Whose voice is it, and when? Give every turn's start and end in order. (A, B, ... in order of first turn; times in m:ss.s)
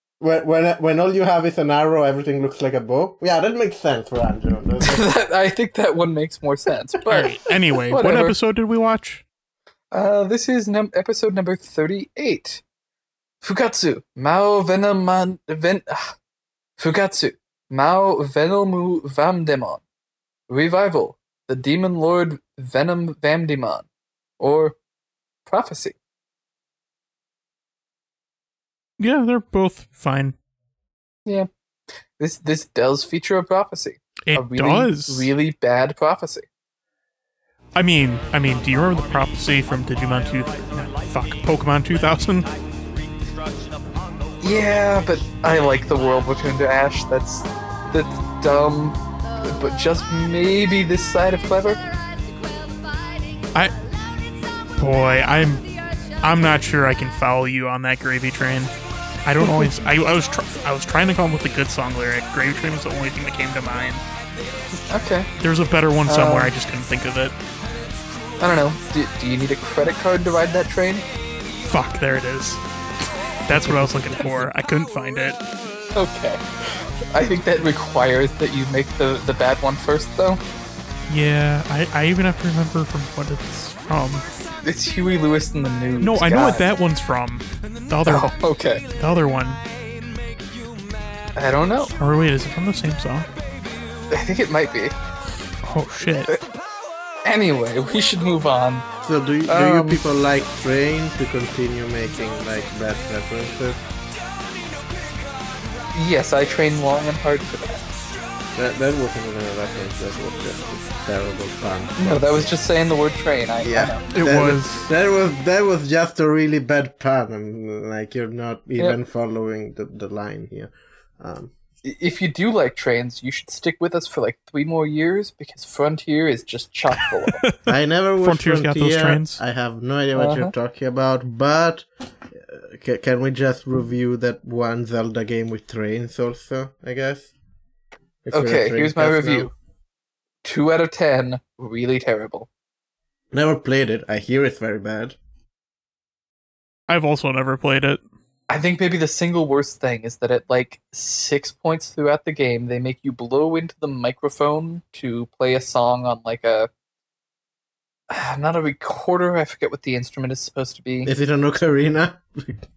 0:00.2-0:05.1 A
0:04.8-0:08.4 B
0:07.1-0:09.2 C
0:09.9-0:12.6 B
0:13.4-0:16.1 B
0:16.8-0:19.8 B
0:20.5-0:23.9 B
0:24.4-0:24.8 B
0:25.5-0:26.0 B
0:29.0-0:30.4 C
0:32.2-0:36.5 B
0:34.3-0:35.3 C
0:37.7-0:42.5 C
0:44.4-0:51.8 B
0:54.8-0:55.7 C
0:56.2-0:58.7 C
0:59.2-1:04.0 C
0:59.4-0:59.7 B
1:04.9-1:05.3 B
1:05.4-1:07.4 C
1:06.0-1:06.5 B
1:08.4-1:11.0 B
1:11.6-1:12.6 C
1:13.4-1:15.4 C
1:13.5-1:14.4 B
1:15.9-1:20.4 B
1:21.1-1:24.2 C
1:24.6-1:26.6 B
1:26.0-1:28.3 C
1:28.0-1:28.8 B
1:28.9-1:29.6 C
1:31.3-1:31.9 B
1:32.0-1:33.3 C
1:34.1-1:34.9 B
1:35.6-1:36.3 C
1:37.2-1:38.8 B
1:39.0-1:43.8 A
1:39.5-1:40.0 B
1:45.9-1:47.8 B
1:48.5-1:52.5 A
1:52.0-1:54.0 B
1:53.6-2:01.5 A
1:54.1-1:54.9 C
2:01.8-2:07.4 B
2:07.3-2:07.6 C
2:07.7-2:17.3 A
2:08.2-2:09.4 C
2:10.2-2:10.5 B
2:18.2-2:19.5 A
2:18.3-2:19.5 B
2:20.4-2:22.5 B
2:23.3-2:25.2 A
2:26.9-2:28.0 C
2:28.5-2:36.7 B
2:38.1-2:41.1 B
2:41.0-2:42.6 A